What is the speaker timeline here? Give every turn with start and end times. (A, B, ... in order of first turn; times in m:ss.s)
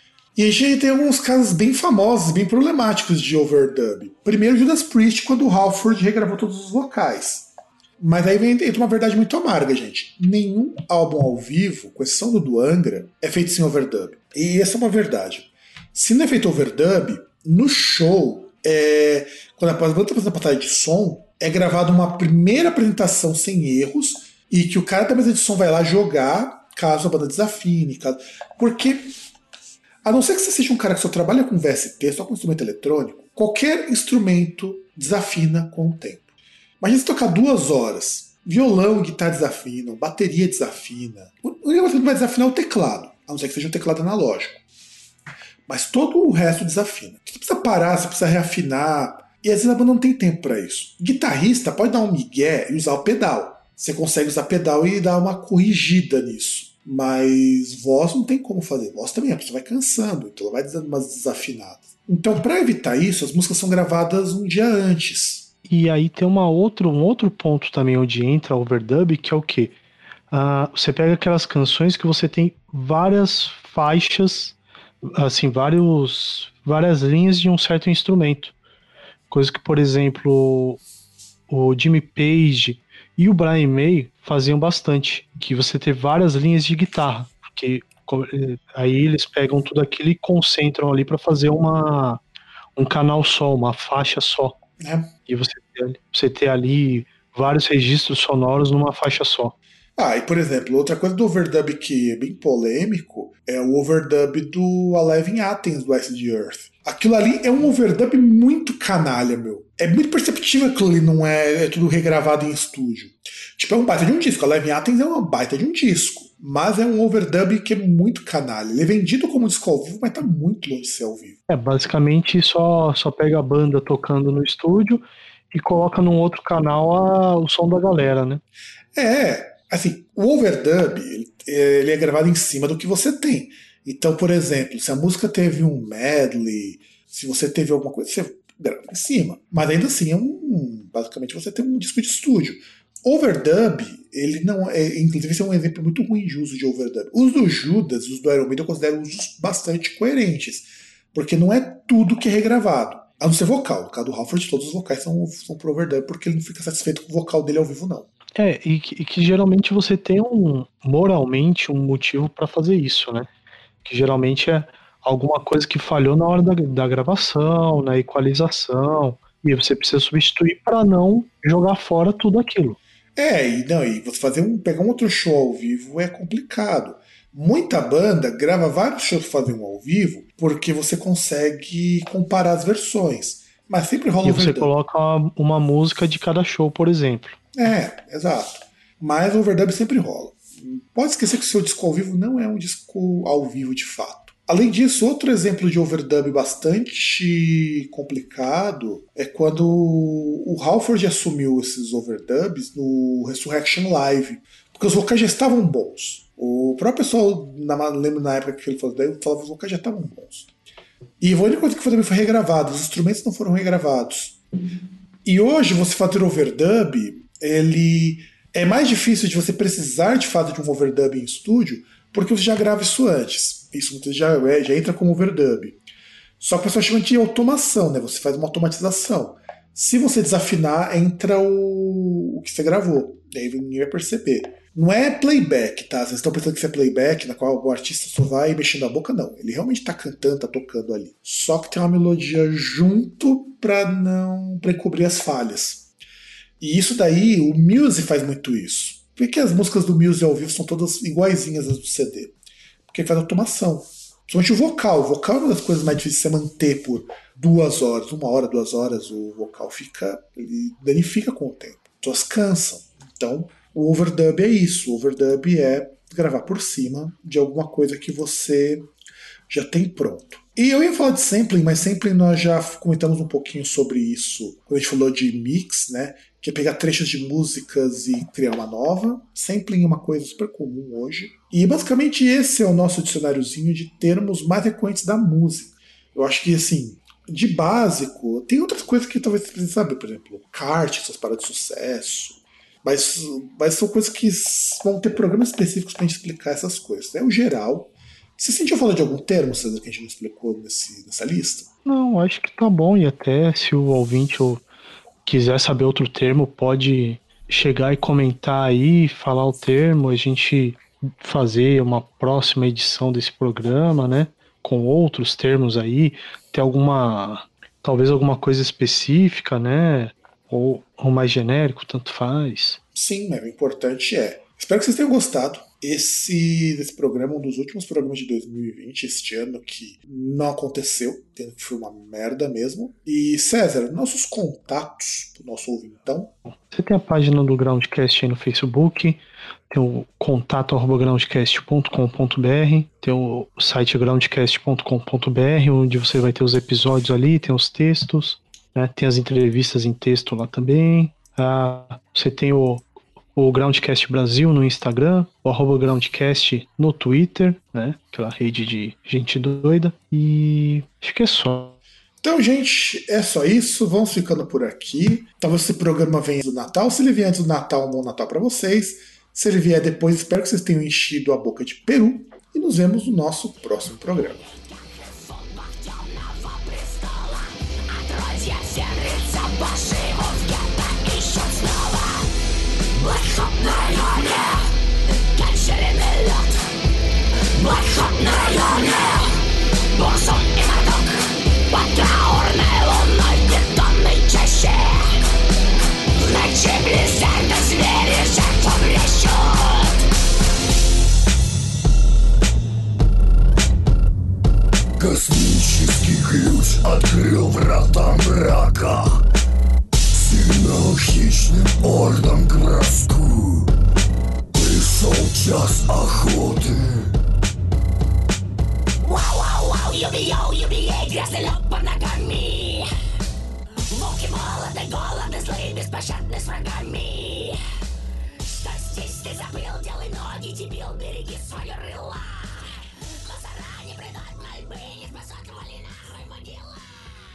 0:00.4-0:29.2 A
0:30.0-0:36.2 A
0:36.8-0:44.6 A
0:45.7-1:05.5 A
1:05.7-1:09.8 B
1:10.3-1:18.6 B
1:19.3-1:20.8 B
1:21.5-1:32.2 B
1:32.8-1:34.6 B
1:34.8-1:35.1 A
1:35.3-1:39.6 B
1:40.0-2:01.4 A
2:01.5-2:08.4 B
2:08.9-2:38.1 A
2:38.4-2:43.3 B
2:43.8-2:52.8 B
2:53.2-3:04.7 A
3:04.2-3:07.4 B
3:07.6-3:30.5 A
3:31.2-3:34.4 A
3:35.2-3:45.8 A
3:46.4-4:05.9 A
4:06.6-4:12.3 A
4:12.9-4:28.9 A
4:29.5-5:01.7 A
5:01.9-5:04.6 B
5:05.2-5:22.8 B
5:23.0-5:36.4 A
5:36.5-6:01.8 B
6:02.2-6:14.4 A
6:14.4-6:22.3 C
6:22.9-6:24.7 C
6:25.3-6:26.6 C
6:27.6-6:29.4 C
6:29.9-6:31.1 C
6:31.7-6:35.1 C
6:36.2-6:40.0 C
6:45.0-6:49.2 D
6:50.1-6:53.7 D
6:54.5-6:57.1 D
6:59.0-7:02.9 C
7:03.9-7:07.6 C
7:08.5-7:17.1 C